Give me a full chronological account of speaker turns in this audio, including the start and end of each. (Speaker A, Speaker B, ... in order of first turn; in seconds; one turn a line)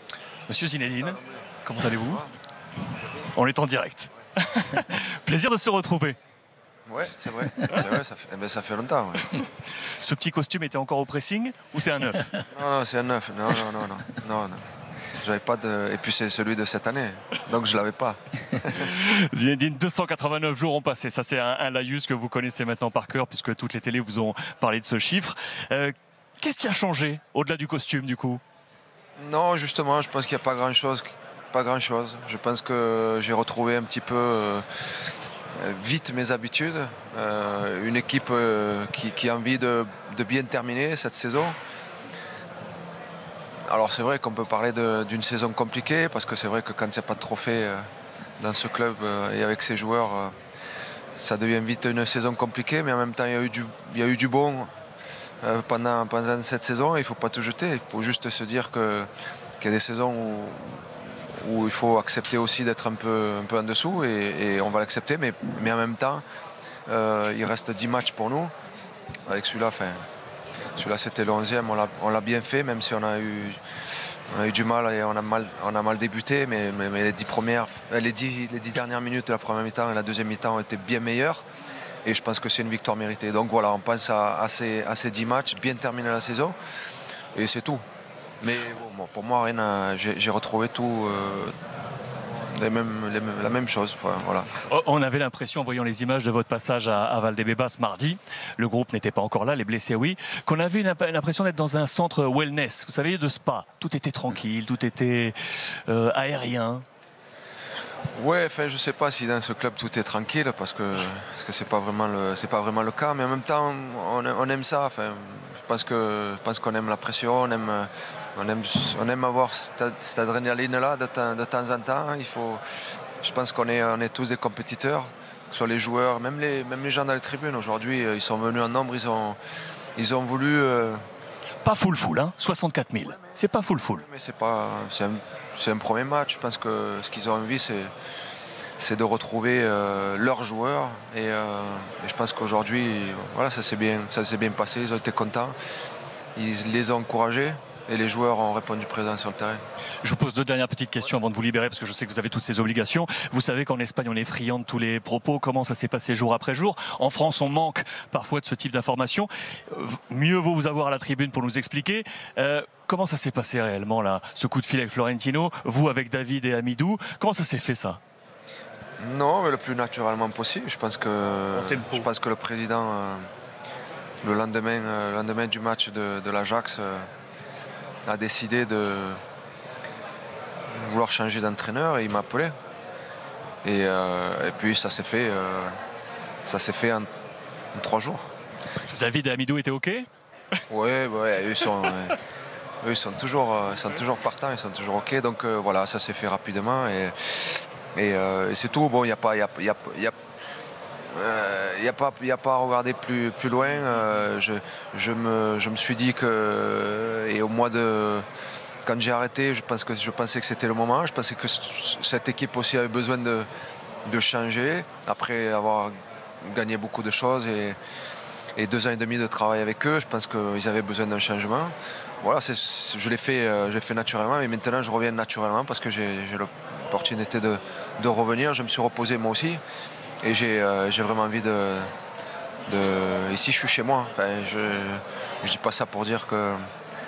Speaker A: 0.5-2.2
Speaker A: 3.3-6.2
Speaker B: 6.9-9.3
Speaker A: 10.0-12.4
Speaker B: 12.5-14.6
Speaker B: 15.2-18.9
Speaker A: 18.7-28.4
Speaker B: 29.2-34.6
Speaker B: 35.6-41.5
Speaker B: 43.7-47.8
Speaker B: 48.4-50.3
Speaker B: 51.1-54.7
Speaker B: 55.4-59.1
Speaker B: 59.6-66.2
Speaker B: 66.9-68.5
Speaker B: 69.3-70.0
Speaker B: 70.8-73.6
Speaker B: 74.3-81.4
Speaker B: 82.0-86.5
Speaker B: 87.3-87.8
Speaker B: 88.4-91.5
Speaker B: 92.5-94.5
Speaker A: 94.7-105.3
Speaker A: 105.9-106.8
Speaker B: 108.2-122.6
Speaker B: 123.2-129.4
Speaker B: 130.0-131.0
Speaker A: 131.6-134.0
Speaker B: 133.9-137.9
Speaker B: 138.8-145.5
Speaker B: 146.3-149.6
Speaker A: 150.0-168.0
Speaker B: 169.0-173.2
Speaker A: 171.5-172.1
Speaker B: 174.2-177.1
Speaker B: 178.1-179.2
Speaker B: 180.7-182.5
Speaker B: 183.6-185.7
Speaker B: 186.4-187.1
Speaker B: 187.7-188.2
Speaker A: 188.8-190.1
Speaker B: 190.7-192.2
Speaker A: 191.6-192.1
Speaker B: 192.8-200.1
Speaker B: 201.1-208.2
Speaker B: 208.8-213.5
Speaker B: 214.1-217.8
Speaker B: 218.6-229.6
Speaker B: 230.2-231.9
Speaker B: 232.7-236.6